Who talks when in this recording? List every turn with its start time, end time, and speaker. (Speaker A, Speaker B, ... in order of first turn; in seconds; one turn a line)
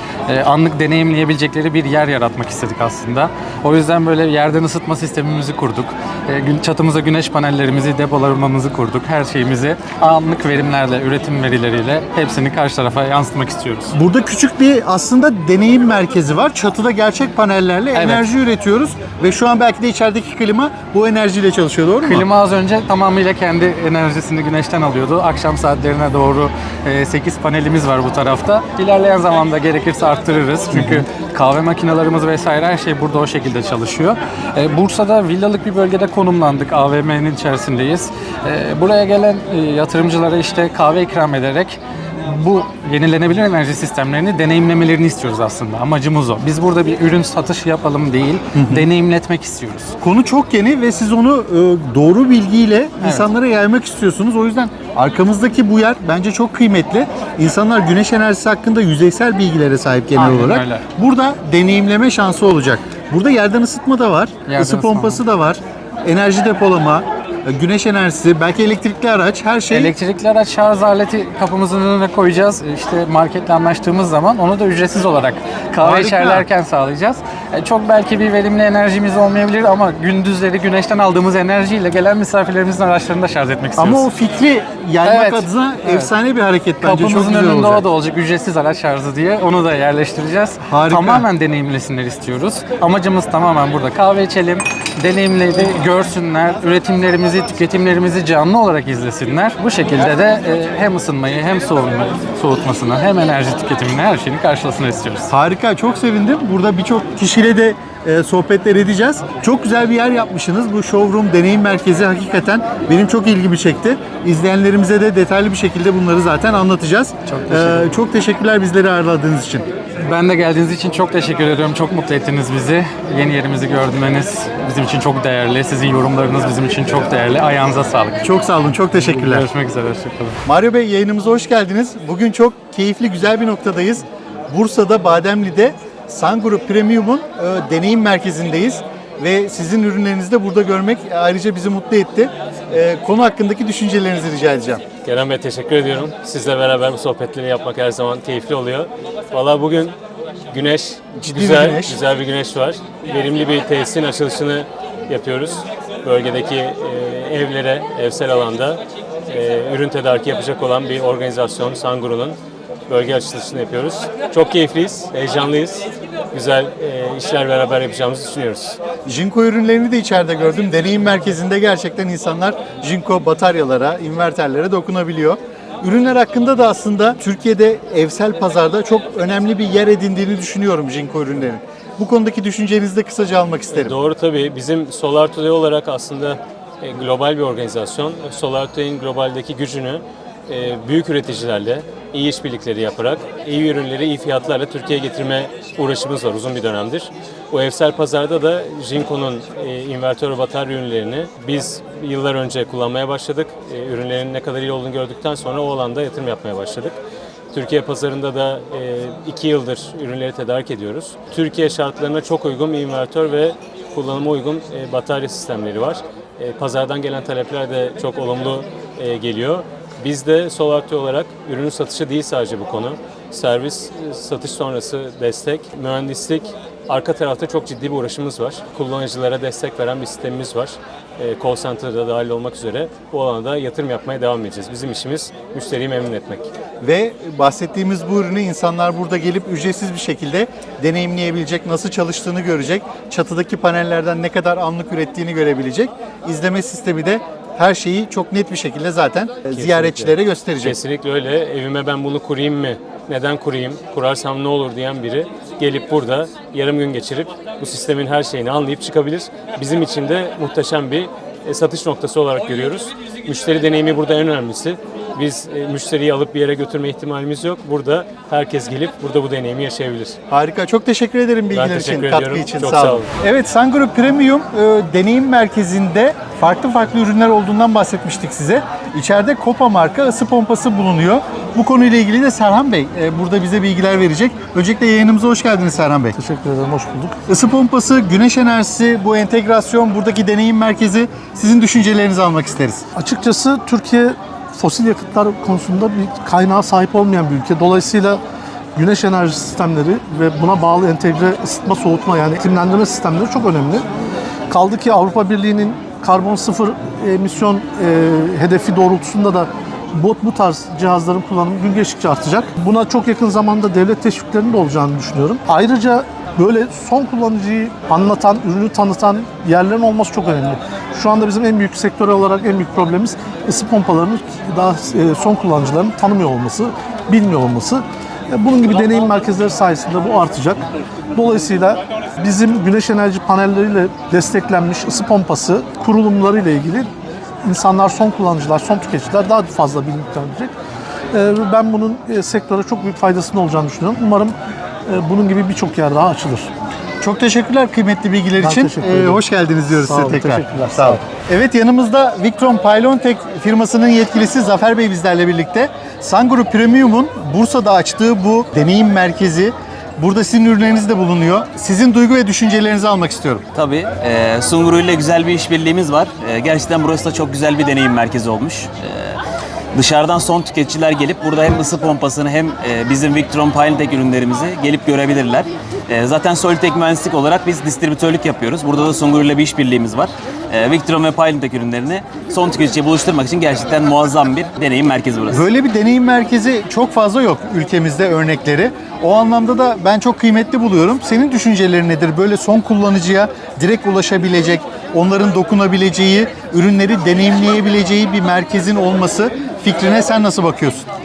Speaker A: 0.3-13.9
Speaker B: 13.9-22.3
Speaker A: 17.9-18.3
Speaker A: 22.0-50.0
Speaker B: 30.7-31.0
Speaker B: 48.5-48.9
Speaker B: 50.0-69.9
Speaker A: 53.0-53.3
Speaker A: 60.1-60.8
Speaker A: 64.5-65.2
Speaker A: 69.7-84.1
Speaker B: 75.8-76.5
Speaker B: 83.8-87.8
Speaker A: 85.0-86.1
Speaker A: 86.8-105.3
Speaker B: 90.6-91.3
Speaker B: 105.3-119.7
Speaker A: 117.3-118.0
Speaker A: 120.0-128.2
Speaker B: 128.2-129.5
Speaker A: 128.9-130.4
Speaker B: 130.4-144.8
Speaker C: 145.0-150.0
Speaker C: 150.5-162.4
Speaker B: 151.2-152.0
Speaker C: 162.9-168.8
Speaker B: 169.1-184.0
Speaker C: 183.7-207.0
Speaker C: 207.5-236.5
Speaker B: 236.8-250.8
Speaker C: 249.5-270.2
Speaker B: 270.3-286.1
Speaker C: 271.5-273.1
Speaker D: 286.1-287.1
Speaker B: 287.3-292.8
Speaker D: 292.9-298.2
Speaker D: 298.8-303.9
Speaker D: 304.5-336.9
Speaker D: 337.4-340.5
Speaker D: 341.1-346.5
Speaker B: 347.0-363.4
Speaker D: 348.4-349.2
Speaker D: 349.7-351.0
Speaker E: 363.5-369.2
Speaker E: 369.7-385.5
Speaker B: 385.3-400.9